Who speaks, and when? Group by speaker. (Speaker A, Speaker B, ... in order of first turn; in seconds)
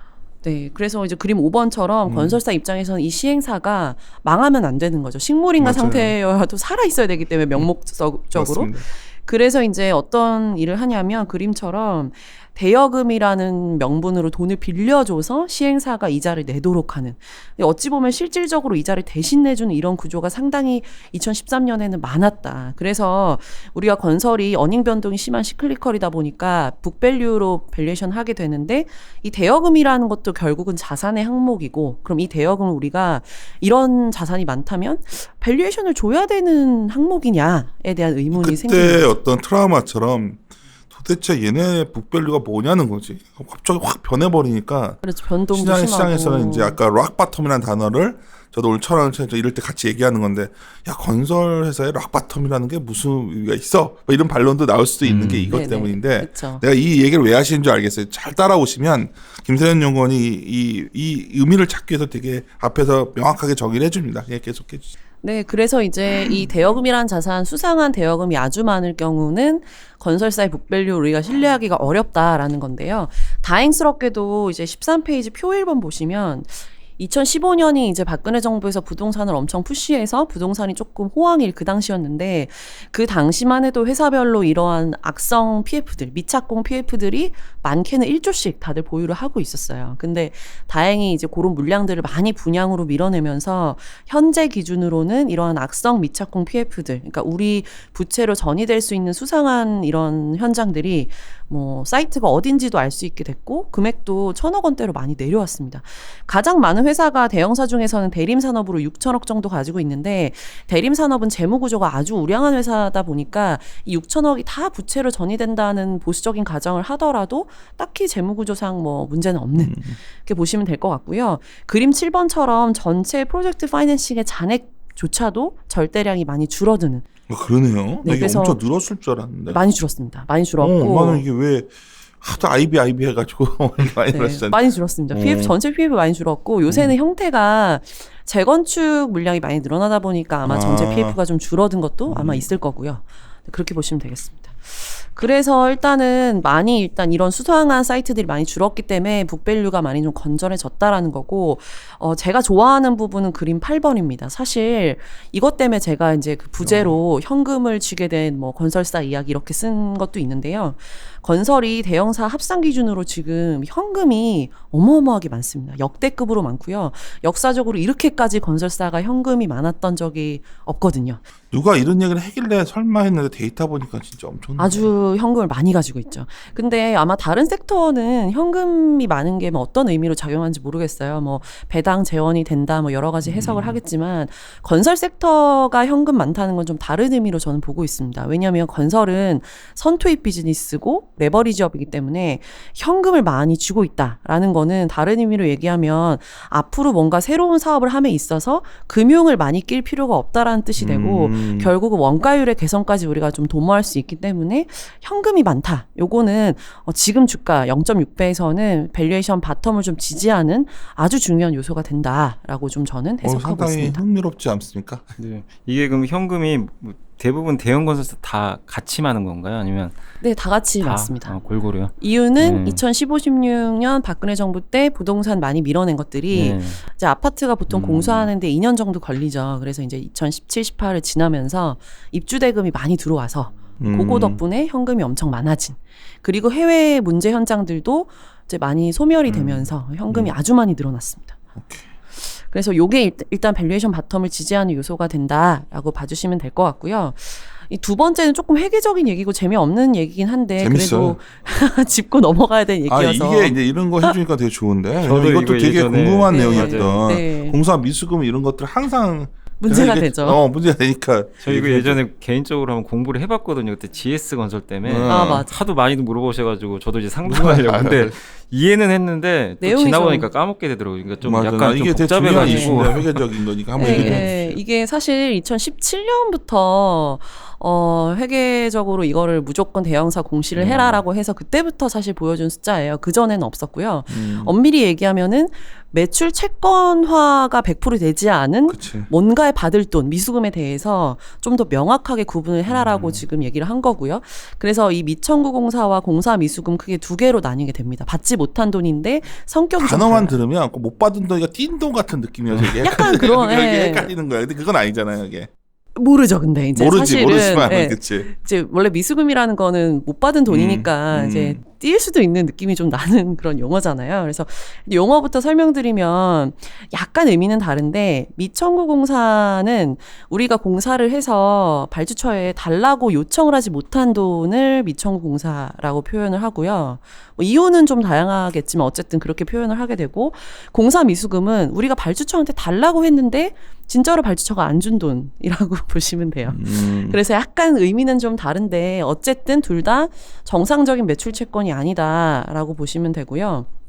Speaker A: 0.4-39.1, 45.0-46.8, 55.5-56.6, 65.2-127.1, 128.0-128.6, 129.5-131.2, 134.1-171.2, 174.6-214.0, 220.2-221.4, 222.0-241.4, 242.2-254.1, 256.3-257.6, 259.6-260.4, 265.1-265.6, 269.6-270.3, 272.4-272.9, 273.8-300.4, 302.8-304.1, 306.0-343.7
Speaker B: 2.1-2.4, 5.6-6.1, 8.3-8.9, 38.3-45.0, 45.5-64.9, 119.6-120.0, 127.3-129.6, 130.6-135.6, 140.4-141.2, 142.1-142.5, 156.6-157.0, 171.5-174.9, 183.2-183.8, 200.8-201.7, 213.2-215.1, 233.8-234.4, 241.6-241.9, 250.6-251.2, 252.9-262.0, 264.8-265.4, 267.2-268.2, 271.2-274.6, 284.1-284.5, 288.7-289.1, 299.8-305.5, 306.8-308.3, 310.5-311.6, 336.5-337.2
Speaker C: 55.0-55.5, 215.2-220.0, 220.8-222.8, 226.3-226.8, 227.7-228.3, 239.3-239.7, 255.0-257.0, 261.4-273.2, 273.8-274.3, 280.6-281.0, 292.7-293.2